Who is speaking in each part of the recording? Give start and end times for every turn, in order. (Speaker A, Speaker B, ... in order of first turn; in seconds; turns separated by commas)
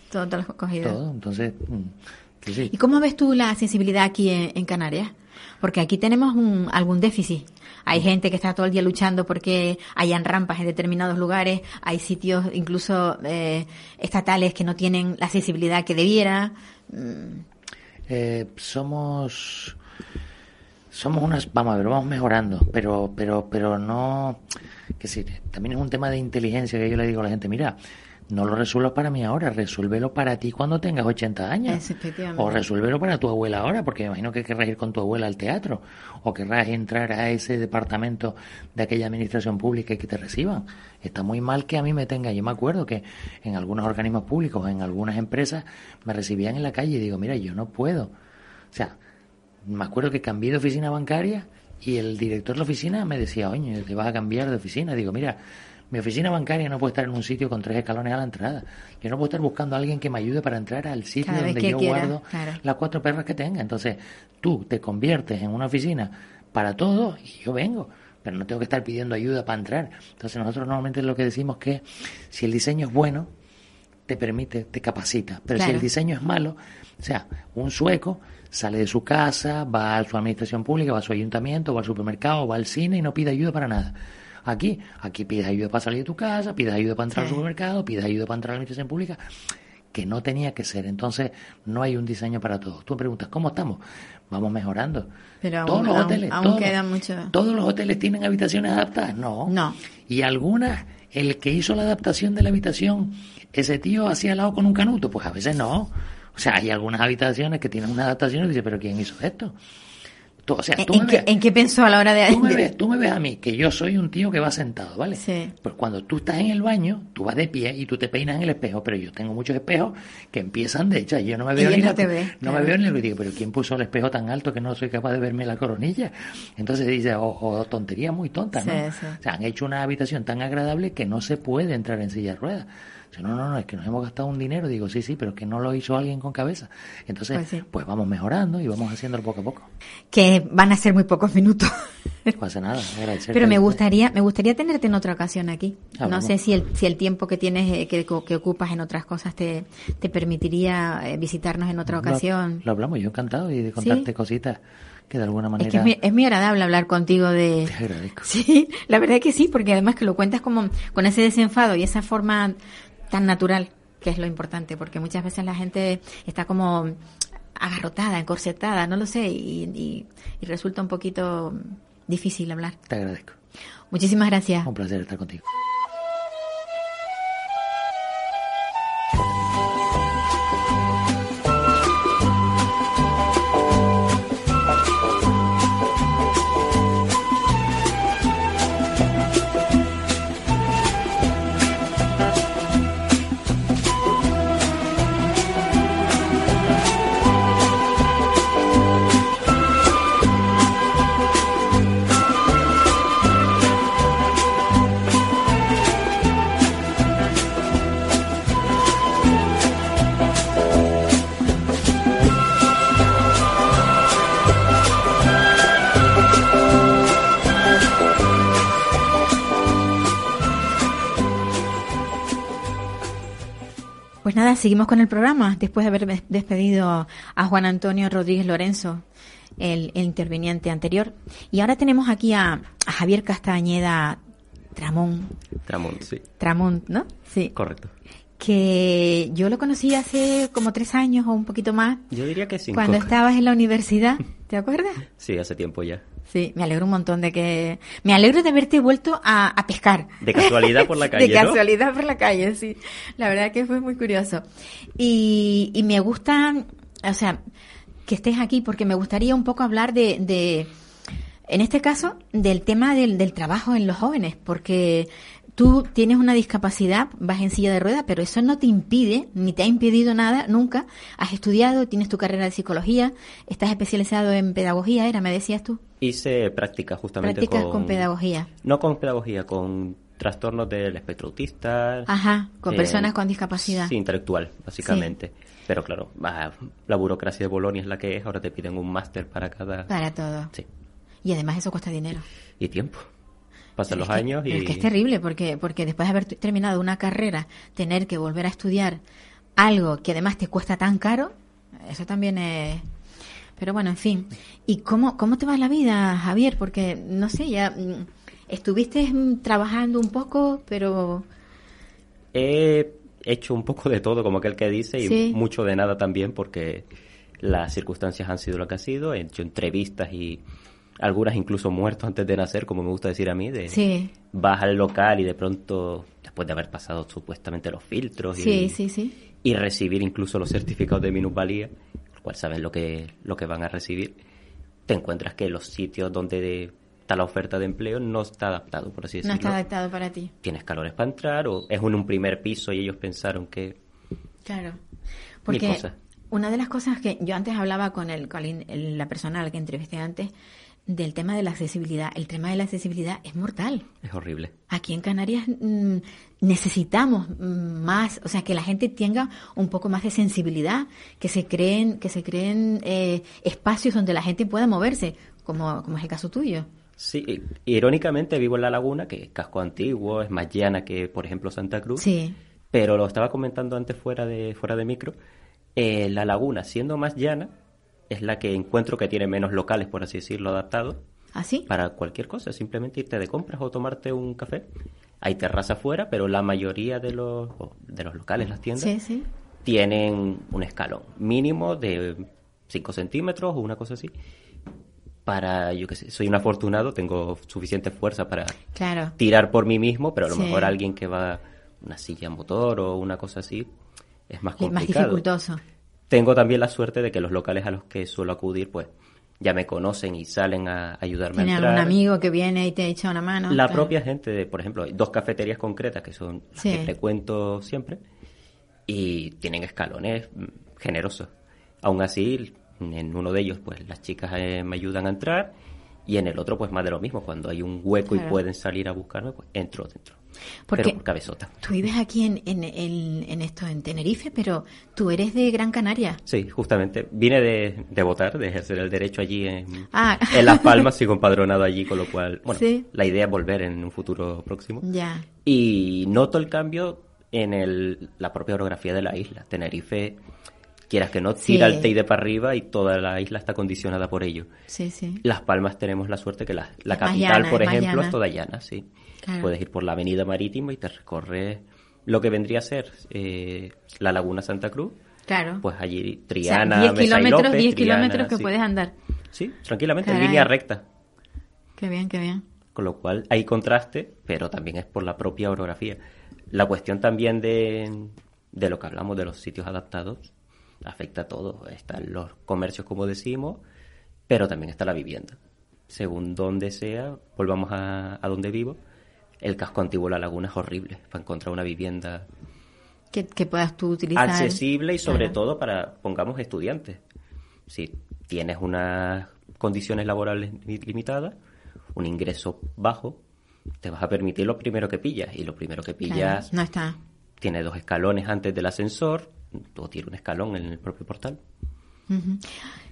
Speaker A: 0.1-1.0, Speaker B: 0.8-2.7, Speaker A: 2.7-17.4, Speaker B: 18.1-19.8, Speaker B: 20.9-24.4, Speaker B: 25.0-27.8, Speaker B: 28.3-31.8, Speaker A: 31.7-32.6, Speaker B: 32.3-48.1, Speaker B: 48.7-49.0, Speaker B: 49.6-55.4, Speaker B: 55.9-73.3, Speaker A: 61.2-62.6, Speaker B: 74.1-89.3, Speaker A: 75.5-75.8, Speaker A: 87.1-87.4, Speaker B: 89.9-95.1, Speaker A: 95.4-97.3, Speaker B: 95.6-96.8, Speaker B: 97.3-99.5, Speaker A: 99.5-99.8, Speaker B: 100.1-109.5, Speaker B: 110.4-111.3, Speaker A: 110.8-112.6, Speaker B: 112.3-139.7, Speaker A: 115.2-115.5, Speaker A: 121.5-122.7, Speaker A: 128.6-129.2, Speaker A: 137.3-137.6, Speaker A: 140.1-142.4, Speaker B: 142.4-143.8, Speaker A: 143.3-152.6, Speaker B: 146.0-146.3, Speaker B: 151.9-155.9, Speaker A: 153.8-154.1, Speaker A: 155.6-162.6, Speaker B: 157.7-158.3, Speaker A: 163.1-167.0, Speaker A: 167.5-172.8, Speaker B: 172.9-173.4, Speaker A: 173.9-174.7, Speaker B: 174.6-175.4, Speaker A: 224.2-229.0, Speaker A: 229.6-234.2, Speaker A: 234.7-235.4, Speaker C: 235.7-236.2, Speaker A: 236.4-237.5, Speaker C: 237.5-237.9, Speaker A: 238.4-242.0, Speaker C: 242.1-243.1, Speaker A: 242.7-245.0, Speaker C: 245.2-246.0, Speaker A: 246.3-254.4, Speaker C: 250.2-251.6, Speaker A: 255.0-257.4, Speaker A: 258.1-260.7, Speaker A: 261.5-275.8, Speaker C: 276.0-278.0, Speaker A: 277.2-278.5, Speaker C: 278.6-282.1, Speaker A: 282.1-283.9, Speaker C: 282.7-289.9, Speaker A: 284.8-285.1, Speaker A: 289.9-290.5, Speaker A: 291.2-292.2, Speaker C: 292.6-293.1, Speaker C: 293.8-294.9, Speaker A: 293.9-299.0, Speaker A: 299.6-302.8, Speaker A: 303.6-311.2, Speaker C: 312.3-316.9, Speaker A: 315.0-315.4, Speaker C: 317.4-320.4, Speaker C: 321.0-323.8, Speaker A: 323.7-324.1, Speaker C: 324.3-328.8, Speaker A: 328.4-329.1, Speaker C: 329.4-334.1, Speaker C: 334.9-339.6, Speaker A: 339.2-340.3, Speaker C: 340.4-343.8, Speaker A: 344.4-344.8, Speaker A: 345.4-350.3, Speaker C: 345.5-345.9, Speaker A: 350.9-353.9, Speaker C: 354.0-354.5, Speaker A: 354.7-366.6, Speaker C: 367.0-372.1, Speaker A: 372.0-372.4, Speaker C: 372.7-375.1, Speaker C: 375.8-377.5, Speaker C: 378.1-381.0, Speaker A: 381.4-381.6, Speaker C: 381.7-384.6, Speaker C: 385.2-388.9, Speaker A: 388.8-389.3, Speaker C: 389.6-394.1, Speaker C: 395.2-398.6, Speaker A: 398.7-399.1, Speaker C: 399.2-403.7, Speaker A: 400.3-400.7, Speaker C: 404.3-405.2, Speaker A: 404.6-405.6, Speaker C: 406.1-408.9, Speaker C: 409.4-411.9, Speaker A: 411.4-413.9, Speaker C: 413.5-418.0, Speaker A: 416.6-416.9, Speaker C: 418.9-421.3, Speaker C: 421.8-425.5, Speaker C: 426.1-430.2, Speaker A: 428.1-428.4, Speaker A: 430.7-431.0, Speaker C: 430.7-431.5, Speaker A: 431.6-436.2, Speaker C: 436.2-444.8, Speaker A: 439.9-440.8, Speaker A: 442.5-442.8, Speaker A: 444.8-445.2, Speaker C: 445.4-450.2, Speaker C: 450.9-454.5, Speaker A: 451.4-451.9, Speaker A: 454.7-455.2, Speaker C: 455.2-458.9, Speaker A: 456.9-458.1, Speaker A: 459.2-459.5, Speaker C: 459.4-464.9, Speaker A: 465.3-465.6, Speaker C: 465.6-468.5, Speaker A: 466.4-468.9, Speaker C: 469.3-470.8, Speaker A: 470.0-470.5, Speaker A: 471.8-472.4, Speaker C: 472.7-476.0, Speaker C: 476.5-480.3, Speaker C: 480.8-483.6, Speaker C: 484.3-485.4, Speaker C: 485.9-488.8, Speaker C: 489.4-492.3, Speaker A: 493.1-495.4, Speaker C: 494.2-497.0, Speaker C: 497.7-501.3, Speaker C: 501.9-503.2, Speaker C: 503.8-506.5, Speaker A: 506.1-506.9, Speaker C: 507.4-511.4, Speaker A: 512.1-512.7